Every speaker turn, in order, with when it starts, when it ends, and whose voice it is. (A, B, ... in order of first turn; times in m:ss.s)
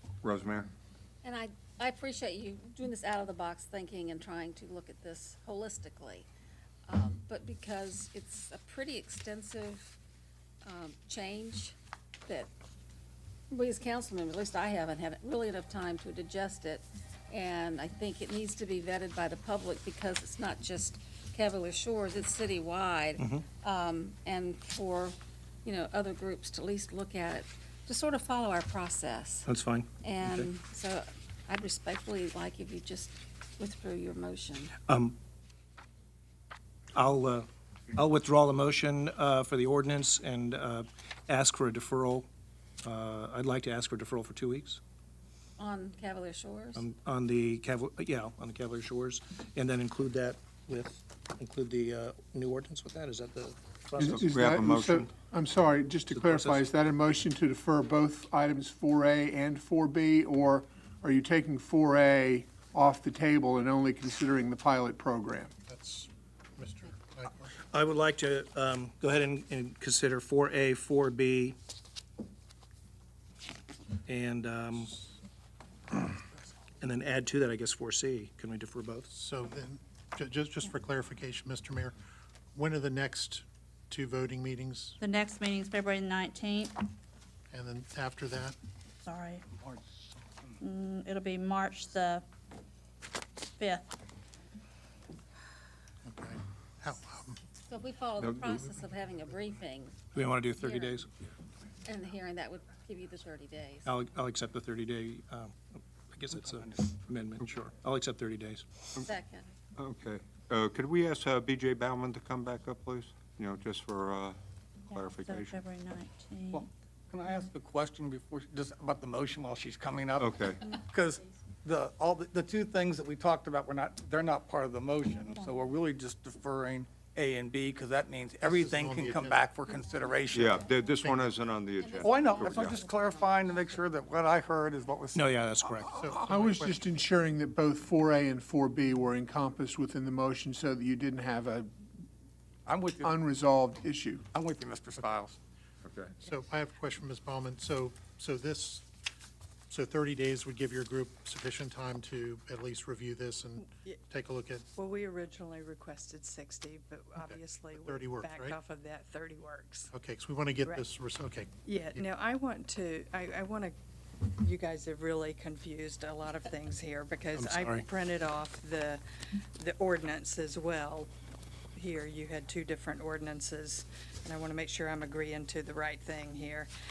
0:00.2-0:00.7 A
0:01.2-0:06.3 B
0:06.9-0:10.0 B
0:10.6-0:11.7 B
0:13.5-0:29.5 B
0:23.2-0:23.4 C
0:29.4-0:30.5 C
0:30.0-0:34.7 B
0:34.9-0:35.1 C
0:36.9-0:42.3 C
0:42.8-0:44.8 C
0:45.6-0:46.8 B
0:46.8-0:54.5 C
0:54.0-1:05.5 D
0:54.0-0:55.0 A
0:56.1-0:56.7 C
1:05.7-1:07.5 E
1:07.7-1:11.6 C
1:14.1-1:15.0 C
1:16.8-1:19.1 C
1:19.1-1:21.9 E
1:22.5-1:25.0 E
1:25.0-1:26.8 F
1:27.5-1:28.6 E
1:29.0-1:29.4 F
1:30.6-1:32.2 F
1:33.6-1:33.9 F
1:36.0-1:37.4 E
1:37.7-1:40.0 B
1:38.2-1:38.6 A
1:40.1-1:41.1 C
1:40.5-1:41.0 B
1:41.8-1:43.9 B
1:43.8-1:48.7 C
1:46.3-1:46.9 G
1:49.0-1:49.5 B
1:49.8-1:54.4 A
1:54.9-1:56.6 F
1:54.9-1:55.6 A
1:56.5-2:10.5 G
2:00.2-2:00.6 A
2:08.4-2:09.4 E
2:10.3-2:12.8 A
2:11.0-2:11.3 E
2:11.8-2:13.8 B
2:12.0-2:15.3 G
2:15.1-2:16.0 C
2:15.9-2:16.8 E
2:16.0-2:21.7 D
2:22.6-2:23.2 G
2:23.0-2:24.2 D
2:24.3-2:25.4 G
2:25.8-2:26.1 A
2:26.2-2:28.8 E
2:29.7-2:34.6 E
2:34.8-2:39.9 H
2:37.2-2:38.6 E
2:39.9-2:42.0 E
2:41.6-2:43.7 H
2:44.4-2:49.0 H
2:47.4-2:47.8 C
2:49.6-2:51.1 H
2:51.7-2:56.7 H